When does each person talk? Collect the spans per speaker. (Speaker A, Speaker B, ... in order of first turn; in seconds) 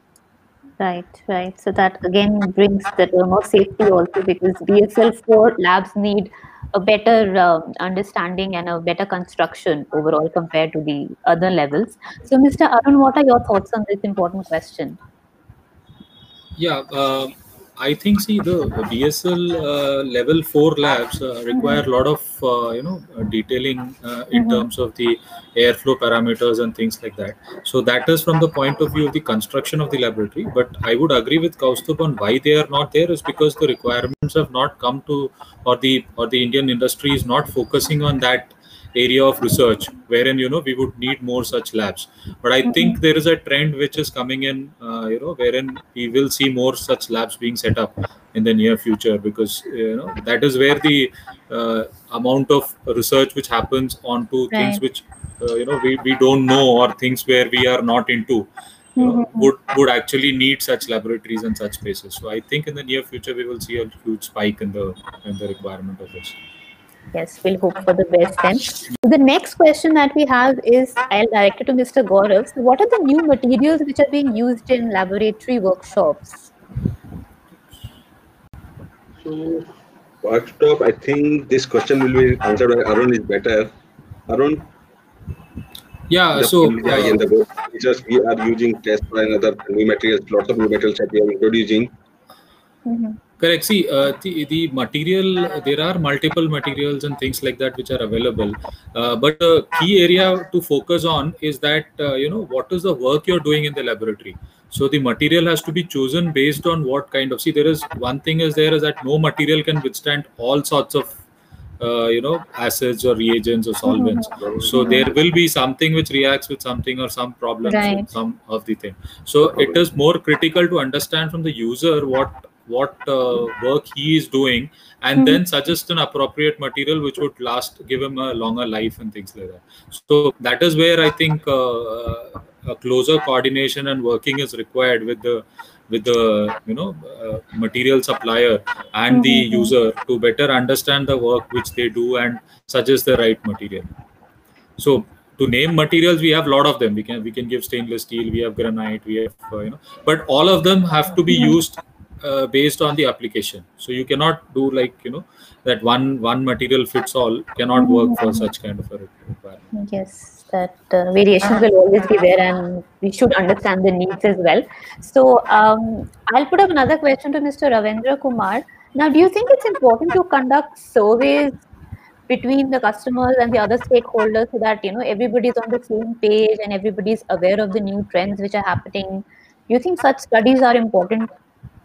Speaker A: 0.8-15.0, 21.5-21.8, 24.3-24.6, 42.6-43.0, 54.5-54.8, 59.0-59.5, 67.1-76.5, 92.9-93.2, 113.8-115.1, 117.6-118.0, 139.1-139.7, 151.3-151.6, 157.8-158.5, 159.7-171.6, 172.3-181.3
Speaker B: 16.6-66.4, 86.1-87.2, 93.4-111.2, 111.8-143.9, 144.8-159.6
Speaker C: 79.2-79.7, 80.2-83.7, 84.3-84.7, 86.3-91.9